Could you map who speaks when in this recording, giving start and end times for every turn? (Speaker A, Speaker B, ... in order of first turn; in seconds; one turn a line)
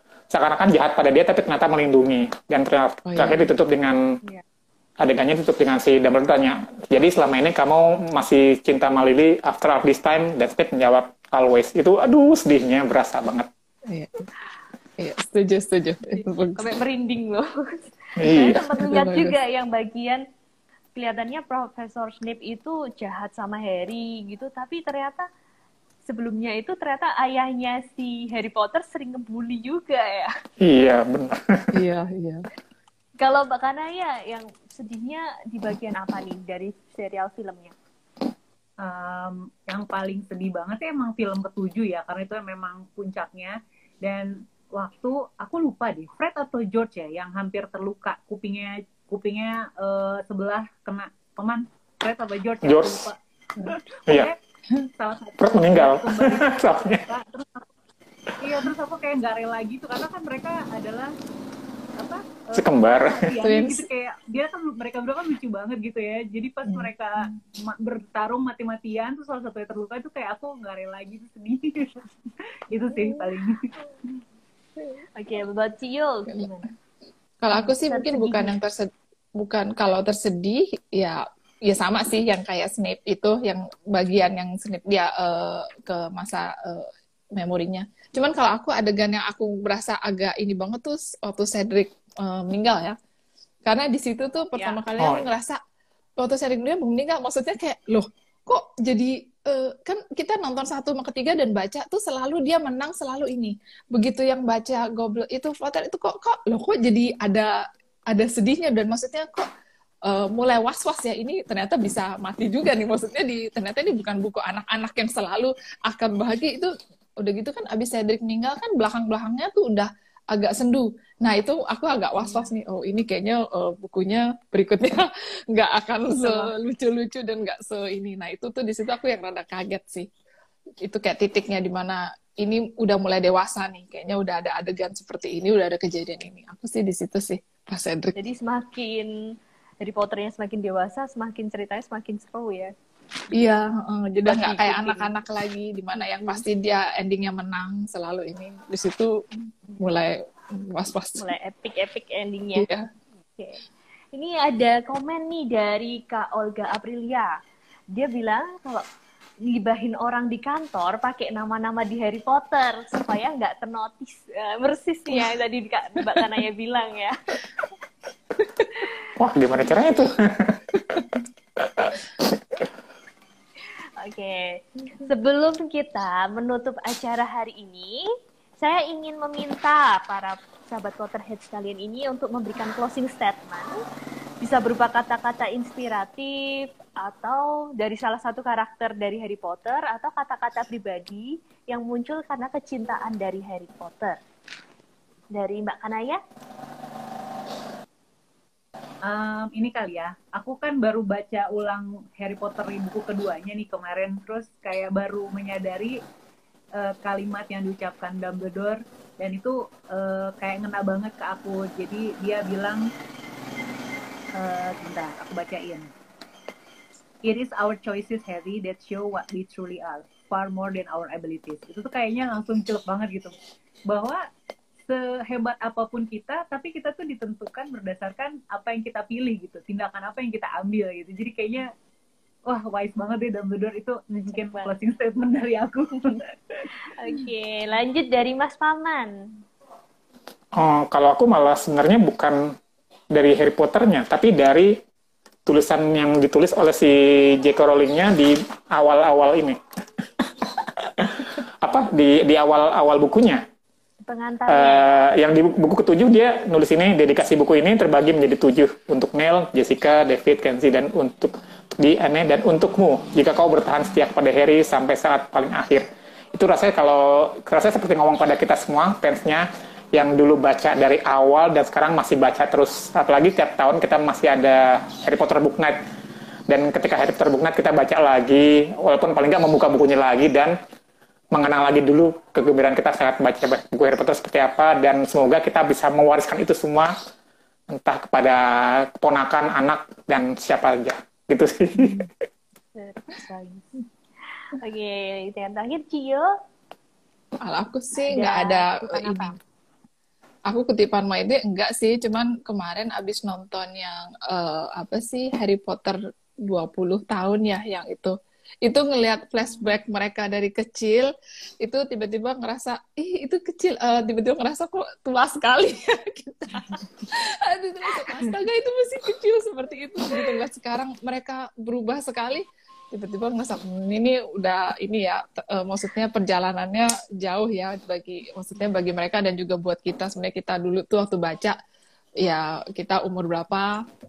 Speaker A: 0.3-4.1
Speaker B: 3.0-3.5
Speaker A: 5.0-13.5
Speaker B: 13.9-14.3
Speaker B: 15.0-16.6
Speaker C: 16.6-20.2
Speaker A: 18.2-18.7
Speaker B: 18.7-19.4
Speaker C: 20.9-25.3
Speaker C: 26.1-30.3
Speaker A: 30.6-31.7
Speaker B: 31.7-32.5
Speaker C: 33.2-37.7
Speaker D: 38.8-54.4
Speaker A: 52.6-53.0
Speaker D: 55.0-57.7
Speaker A: 55.4-57.0
Speaker D: 58.4-61.1
Speaker D: 62.0-72.1
Speaker A: 62.5-63.4
Speaker B: 63.4-63.9
Speaker D: 72.7-73.7
Speaker C: 75.2-76.7
Speaker B: 77.4-93.0
Speaker C: 77.5-78.5
Speaker B: 93.7-95.6
Speaker A: 95.0-95.3
Speaker B: 96.2-109.5
Speaker B: 110.0-130.1
Speaker C: 122.2-122.5
Speaker C: 126.1-126.5
Speaker B: 130.8-138.2
Speaker C: 138.2-139.1
Speaker C: 139.8-142.7
Speaker B: 143.3-149.2
Speaker C: 144.2-145.1
Speaker B: 149.8-151.3
Speaker C: 151.2-152.7
Speaker B: 152.6-152.9
Speaker C: 153.4-153.6
Speaker C: 154.1-157.3
Speaker C: 157.9-158.8
Speaker C: 159.4-167.4
Speaker B: 166.1-166.4
Speaker A: 169.2-170.8
Speaker A: 171.6-172.0
Speaker C: 174.0-178.0
Speaker C: 178.6-183.8
Speaker C: 184.4-194.2
Speaker C: 195.3-196.2
Speaker D: 199.1-206.0
Speaker D: 206.8-212.9
Speaker D: 214.3-215.9
Speaker D: 217.2-223.3
Speaker D: 223.9-224.2
Speaker D: 224.9-231.7
Speaker D: 232.5-236.7
Speaker C: 234.3-234.7
Speaker C: 236.8-239.3
Speaker A: 240.6-242.6
Speaker A: 243.1-244.8
Speaker A: 245.5-249.6
Speaker A: 250.2-253.4
Speaker C: 254.1-254.9
Speaker A: 254.5-275.8
Speaker A: 276.5-280.6
Speaker A: 281.3-286.9
Speaker A: 287.7-292.1
Speaker C: 292.8-293.8
Speaker C: 294.4-296.3
Speaker B: 297.4-299.3
Speaker C: 298.0-299.4
Speaker B: 300.5-311.1
Speaker B: 311.6-331.6
Speaker B: 332.2-333.8